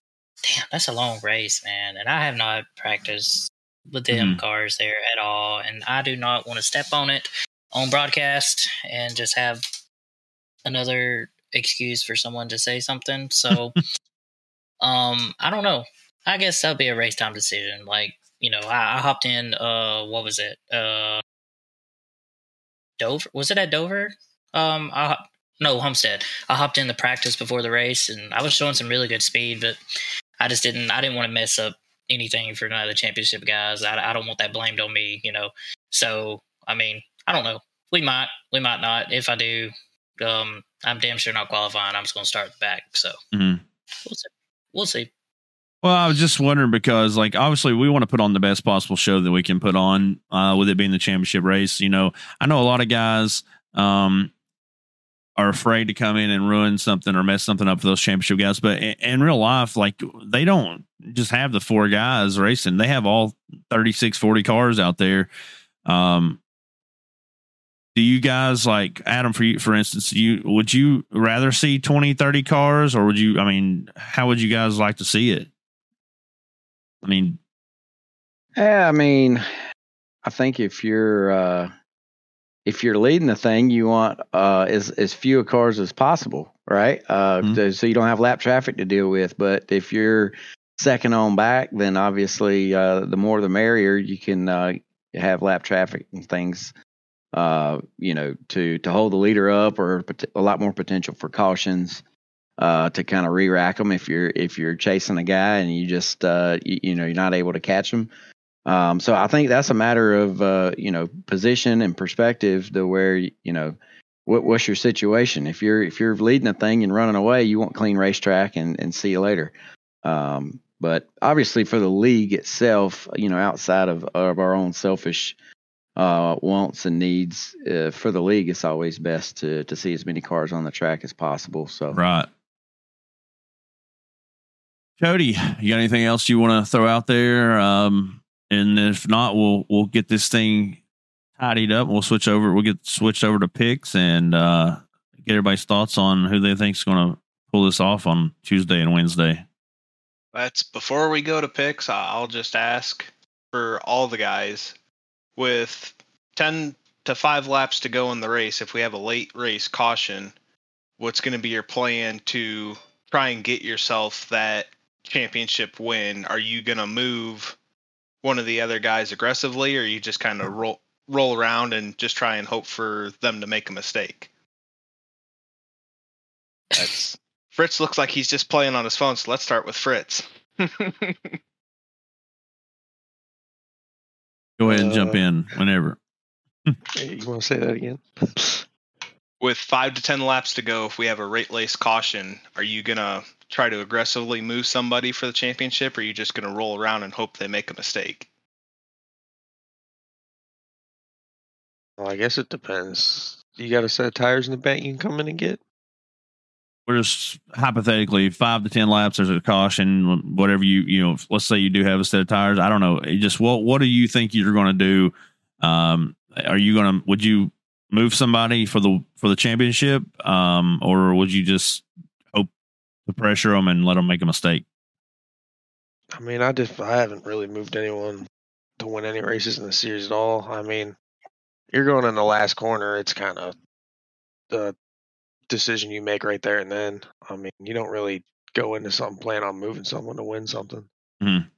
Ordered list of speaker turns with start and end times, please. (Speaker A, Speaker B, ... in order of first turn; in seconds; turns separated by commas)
Speaker A: 0.4-9.6, Speaker B: 4.1-4.4, Speaker A: 10.6-13.8, Speaker A: 14.8-21.2, Speaker A: 23.0-29.8, Speaker A: 30.4-43.1, Speaker B: 43.3-43.6, Speaker A: 44.0-45.1, Speaker B: 45.8-54.3, Speaker B: 55.4-65.3, Speaker B: 65.8-66.4, Speaker B: 67.9-75.5, Speaker B: 77.0-77.4, Speaker C: 78.6-79.4, Speaker C: 80.2-81.7, Speaker C: 82.7-96.7, Speaker C: 97.3-102.0, Speaker C: 102.6-108.1, Speaker C: 108.7-119.5, Speaker C: 120.0-125.3, Speaker C: 126.0-132.0, Speaker B: 131.9-132.3, Speaker B: 135.0-140.8, Speaker B: 141.4-149.4, Speaker D: 150.3-154.7, Speaker D: 155.4-160.3, Speaker D: 161.0-167.6, Speaker D: 168.2-174.3, Speaker D: 176.7-181.3, Speaker B: 184.6-186.0, Speaker E: 184.6-185.2, Speaker E: 186.9-188.6, Speaker D: 189.4-198.3, Speaker E: 202.0-205.6, Speaker B: 206.8-222.5, Speaker B: 223.1-224.6, Speaker E: 226.1-228.3, Speaker E: 228.8-230.9, Speaker E: 231.7-233.5, Speaker E: 234.5-234.8, Speaker E: 235.5-240.9, Speaker B: 241.2-241.5